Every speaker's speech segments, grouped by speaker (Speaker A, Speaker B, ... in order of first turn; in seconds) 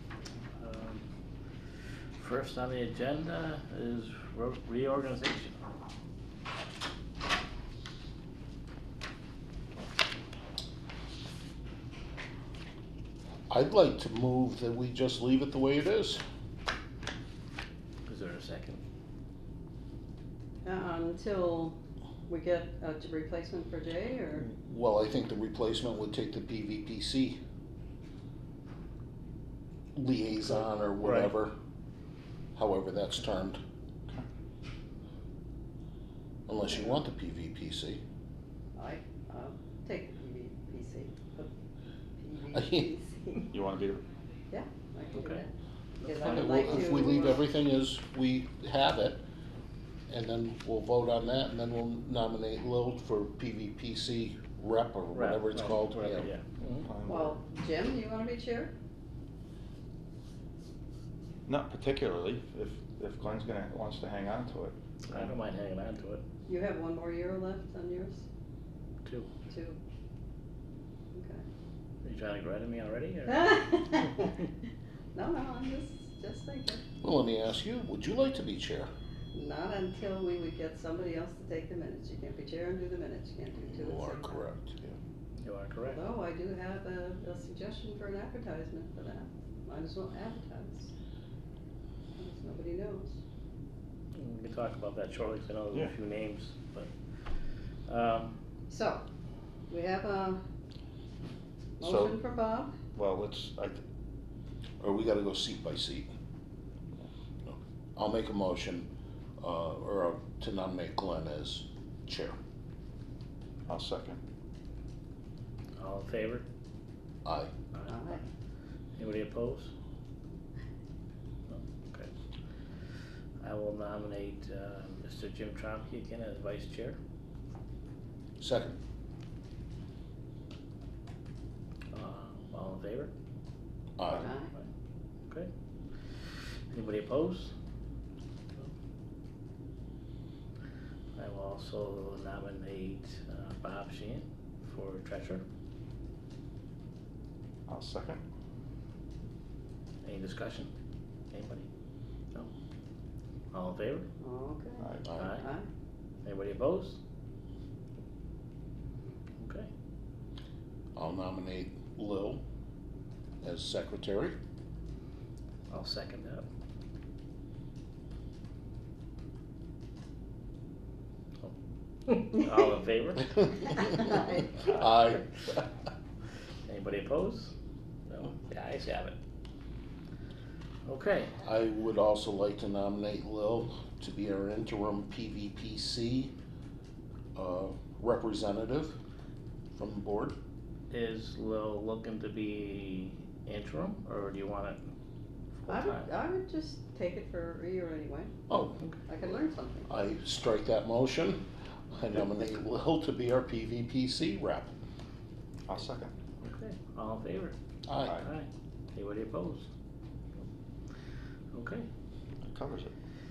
Speaker A: 0.6-1.1, 2.2-5.6, 18.1-18.8, 31.0-31.3, 45.1-45.4, 46.0-46.7, 55.1-56.9, 65.0-66.2, 69.0-69.3, 72.0-73.7, 85.4-86.1, 94.1-97.3, 97.9-98.3, 115.8-116.5, 117.7-118.2, 119.0-119.7, 121.5-122.1, 123.4-127.0, 131.9-133.1, 136.7-137.5, 141.2-145.4, 150.0-150.7, 151.3-151.7, 153.5-154.1, 155.2-155.5, 156.2-157.0, 159.4-159.7, 165.7-166.5, 172.1-173.9, 176.7-177.5, 178.1-179.2, 180.8-181.3, 190.9-194.8, 195.6-196.1, 206.4-207.6, 208.2-209.7, 211.5-211.9
Speaker B: 13.5-16.2, 24.4-27.4, 29.9-31.6, 32.5-33.6, 36.5-38.0, 42.5-42.9, 46.2-49.2, 50.1-56.3, 77.0-78.9, 83.6-85.0, 104.8-106.1, 107.5-112.4, 117.2-117.5, 128.4-128.8, 134.0-134.3, 161.0-162.4, 163.4-164.4, 173.4-175.7, 181.4-186.3, 187.4-189.0, 189.8-190.4, 198.5-198.8, 199.9-204.7, 207.9-208.2
Speaker C: 20.6-24.5, 38.8-41.5, 42.2-43.5, 44.5-47.5, 57.0-58.7, 66.5-68.3, 69.5-69.8, 71.1-71.4, 73.3-74.3, 75.1-76.8, 79.3-84.4, 85.9-90.9, 92.2-93.2, 98.7-99.1, 99.7-100.4, 101.8-102.8, 117.9-118.2, 134.1-134.5, 154.2-155.7, 173.9-174.2, 195.7-198.4, 199.1-199.9
Speaker D: 43.5-44.0, 56.8-57.4, 61.5-65.3, 101.8-102.2, 103.0-103.8, 113.7-114.2, 147.7-148.2, 154.8-155.1, 205.7-206.1, 212.4-212.9